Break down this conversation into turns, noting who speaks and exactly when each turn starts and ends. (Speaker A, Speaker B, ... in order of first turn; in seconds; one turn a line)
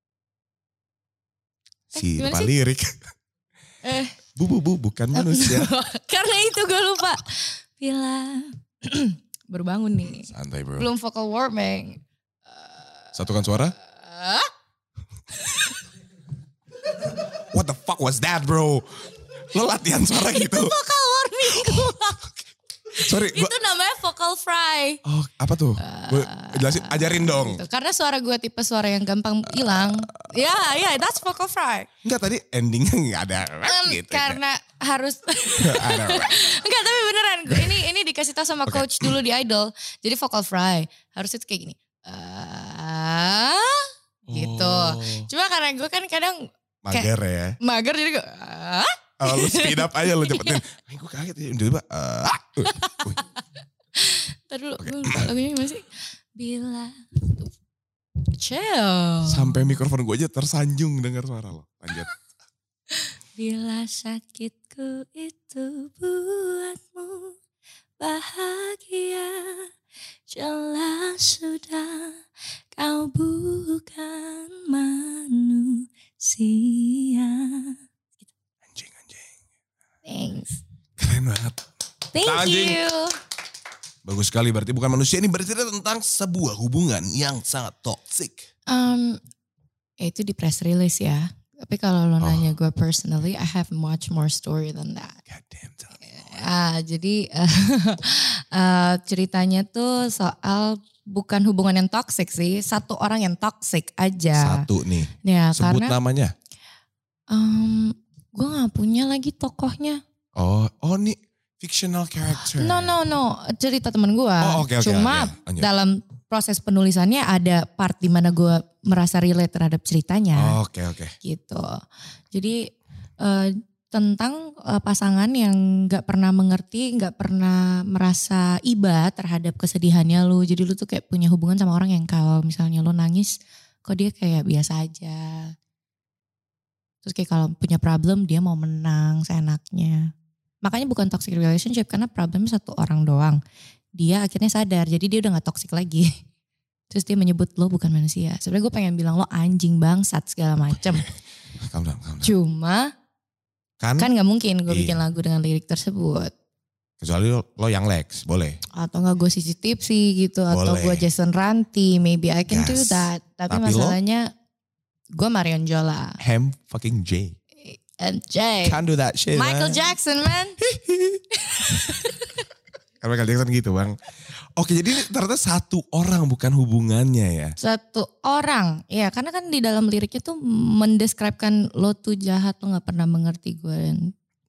Speaker A: 1.9-3.1
Speaker B: 1.9-2.5
Speaker B: 3.8-4.2
Speaker A: 4.3-5.7
Speaker B: 5.1-13.2
Speaker A: 10.2-10.9
Speaker A: 13.1-13.7
Speaker B: 13.7-14.5
Speaker B: 15.3-15.8
Speaker A: 17.3-20.7
Speaker B: 20.2-22.3
Speaker A: 21.5-22.2
Speaker B: 22.9-25.0
Speaker A: 23.0-23.5
Speaker A: 25.0-27.6
Speaker B: 25.8-31.9
Speaker A: 29.7-29.9
Speaker A: 32.0-34.4
Speaker B: 33.6-50.6
Speaker A: 35.6-36.3
Speaker A: 37.5-37.8
Speaker A: 38.7-39.2
Speaker A: 44.3-45.3
Speaker A: 46.8-47.6
Speaker A: 49.2-53.2
Speaker B: 52.6-53.3
Speaker B: 54.0-57.5
Speaker A: 54.8-55.3
Speaker B: 58.3-59.7
Speaker A: 59.2-62.1
Speaker B: 62.9-67.4
Speaker B: 68.0-69.7
Speaker B: 70.3-72.2
Speaker B: 72.8-78.2
Speaker A: 78.7-79.3
Speaker B: 80.0-80.6
Speaker A: 81.0-81.6
Speaker B: 82.1-83.2
Speaker A: 82.2-82.8
Speaker A: 84.0-88.4
Speaker B: 88.7-89.2
Speaker B: 90.0-95.2
Speaker A: 92.2-92.5
Speaker A: 95.3-96.4
Speaker B: 96.0-104.7
Speaker A: 104.3-106.3
Speaker B: 105.2-106.0
Speaker B: 107.3-110.0
Speaker A: 110.3-112.9
Speaker B: 112.4-120.6
Speaker A: 114.4-115.7
Speaker A: 120.3-121.2
Speaker B: 121.2-135.5
Speaker B: 137.0-140.1
Speaker B: 140.6-143.4
Speaker B: 143.9-146.1
Speaker B: 146.9-151.1
Speaker A: 151.6-152.3
Speaker B: 152.2-152.9
Speaker A: 153.8-154.1
Speaker B: 154.0-156.3
Speaker A: 154.7-155.0
Speaker A: 157.0-158.6
Speaker B: 158.7-164.3
Speaker A: 160.5-161.1
Speaker A: 162.5-164.0
Speaker B: 165.1-166.2
Speaker A: 166.2-167.3
Speaker B: 167.6-168.8
Speaker A: 168.7-169.9
Speaker B: 169.3-170.6
Speaker A: 170.6-171.9
Speaker B: 171.4-172.4
Speaker A: 173.0-173.9
Speaker A: 174.6-177.6
Speaker B: 177.6-184.1